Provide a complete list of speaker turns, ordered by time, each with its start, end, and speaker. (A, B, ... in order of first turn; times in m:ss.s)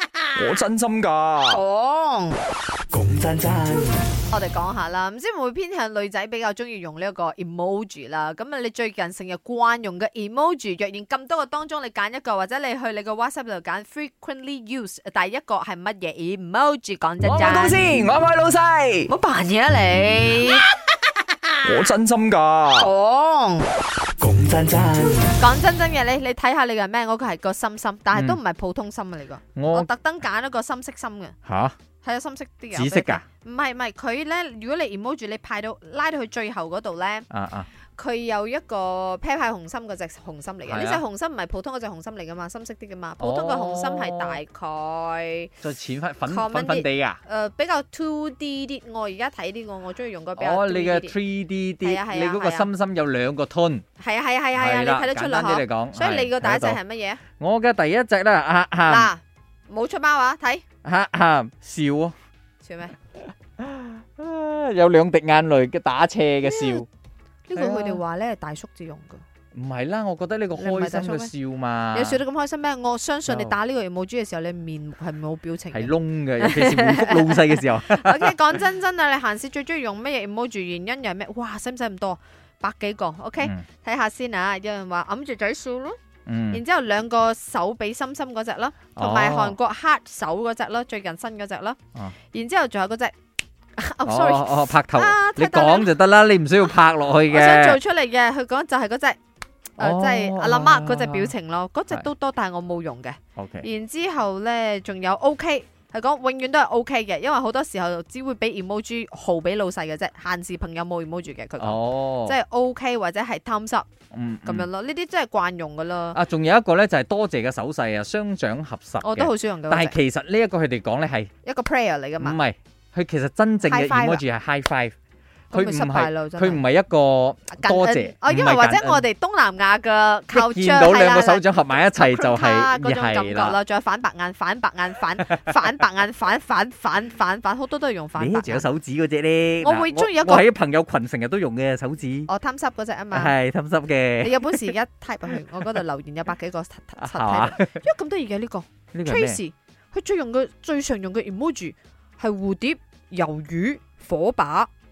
0:00.3-0:01.6 A
0:01.5-0:02.4 B
0:02.9-0:03.9 C
0:04.3-0:17.9 B
0:17.2-0:19.1 A
0:19.1-0:20.7 B
0:21.6-0:22.9 A
0:22.8-0:23.7 B
0:24.2-0:25.3 C
0:25.4-0:31.4 B
0:28.1-0:28.4 A
0:29.5-0:29.9 A
0:31.4-0:31.7 A
0:32.0-0:37.3 B
0:32.7-0:33.2 A
0:37.3-0:37.7 A
0:38.0-0:45.6 B
0:40.6-0:41.0 A
0:43.2-0:44.4 A
0:45.6-0:47.2 A
0:46.2-0:51.1 B
0:50.3-0:53.8 A
0:51.8-0:52.7 B
0:54.0-0:57.2 B
0:54.5-0:56.8 A
0:57.4-0:59.1 A
0:58.8-1:00.6 B
1:00.8-1:02.1 A
1:02.6-1:03.0 B
1:03.6-1:06.9 A
1:06.4-1:06.8 B
1:07.5-1:09.2 B
1:07.5-1:08.0 A
1:09.5-1:12.2 A
1:10.6-1:11.3 B
1:11.9-1:26.0 B
1:13.3-1:13.5 A
1:15.7-1:18.4 A
1:23.4-1:23.6 A
1:26.2-1:26.6 A
1:26.5-1:31.8 B
1:29.0-1:29.6 A
1:32.3-1:33.1 B
1:33.8-1:35.9 B
1:34.0-1:37.8 A
1:37.3-1:39.2 B
1:39.8-1:41.3 A
1:39.8-1:53.9 B
1:43.4-1:43.7 A
1:51.6-1:52.4 A
1:54.1-1:54.7 A
1:54.4-1:56.2 B
1:56.1-2:01.3 A
1:59.0-2:00.0 B
2:01.4-2:02.4 B
2:02.2-2:04.9 A
2:03.6-2:04.2 B
2:05.5-2:06.6 B
2:05.5-2:09.0 A
2:07.5-2:18.7 B
2:10.3-2:13.6 A
2:18.2-2:22.3 A
2:19.6-2:20.5 B
2:22.3-2:23.4 B
2:23.1-2:24.7 A
2:24.2-2:34.7 B
2:25.3-2:25.7 A
2:27.0-2:27.8 A
2:28.9-2:29.4 A